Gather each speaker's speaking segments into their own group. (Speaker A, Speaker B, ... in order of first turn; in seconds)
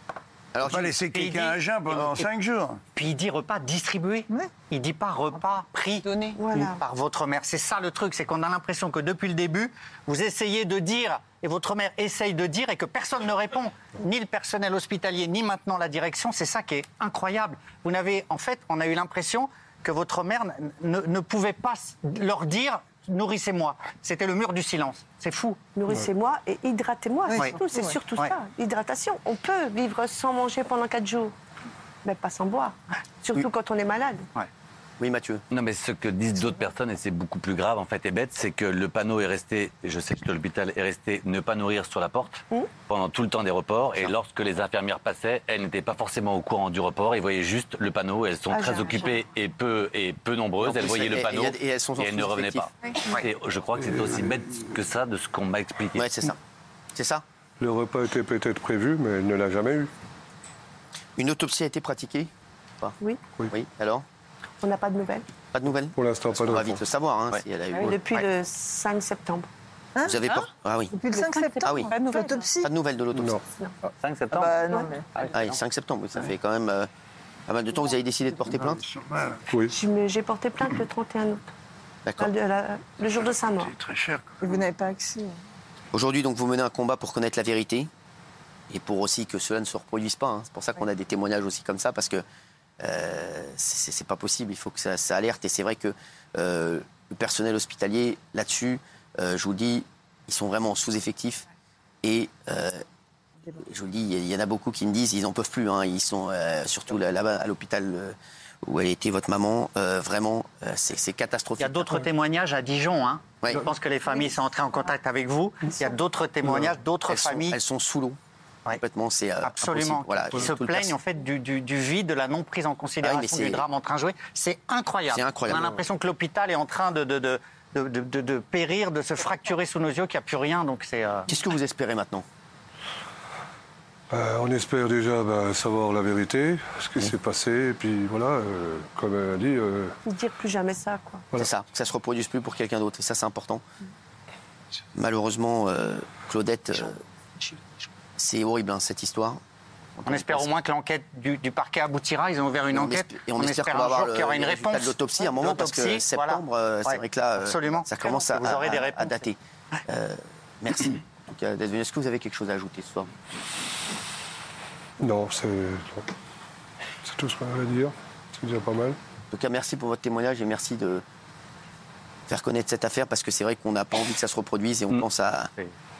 Speaker A: 0.5-0.9, 35.0-35.4, 50.6-52.7, 56.0-56.4, 57.0-57.2, 61.2-64.0, 65.5-68.3, 70.0-71.0, 71.6-72.0, 72.6-73.4, 75.3-76.9, 77.5-78.8, 82.0-82.3, 85.9-87.9, 88.7-92.2, 92.8-101.5, 102.0-102.8, 103.5-112.0, 117.1-118.2, 118.8-121.0, 123.0-123.7, 125.1-125.8, 131.3-132.2, 141.3-143.6, 144.9-147.0, 148.2-149.4, 150.0-150.5, 152.7-163.1, 169.3-171.0, 172.3-175.5
Speaker B: 0.7-2.8, 78.9-79.4, 83.8-84.5
Speaker C: 1.0-2.3, 2.9-25.6, 27.3-27.6, 111.6-117.6, 119.4-131.3, 150.1-159.2
Speaker D: 6.3-6.8, 25.7-31.3, 32.0-34.3, 48.5-49.2, 64.6-65.3, 67.7-69.5, 71.1-72.5, 74.5-74.9, 79.7-81.5, 82.2-83.7, 140.1-141.3
Speaker E: 27.3-27.9, 70.0-72.7, 74.4-75.1, 84.4-85.4
Speaker F: 35.5-56.1, 74.0-74.6
Speaker G: 53.8-54.4, 57.6-59.9, 66.0-66.8, 134.1-140.0, 165.0-166.1, 167.0-169.0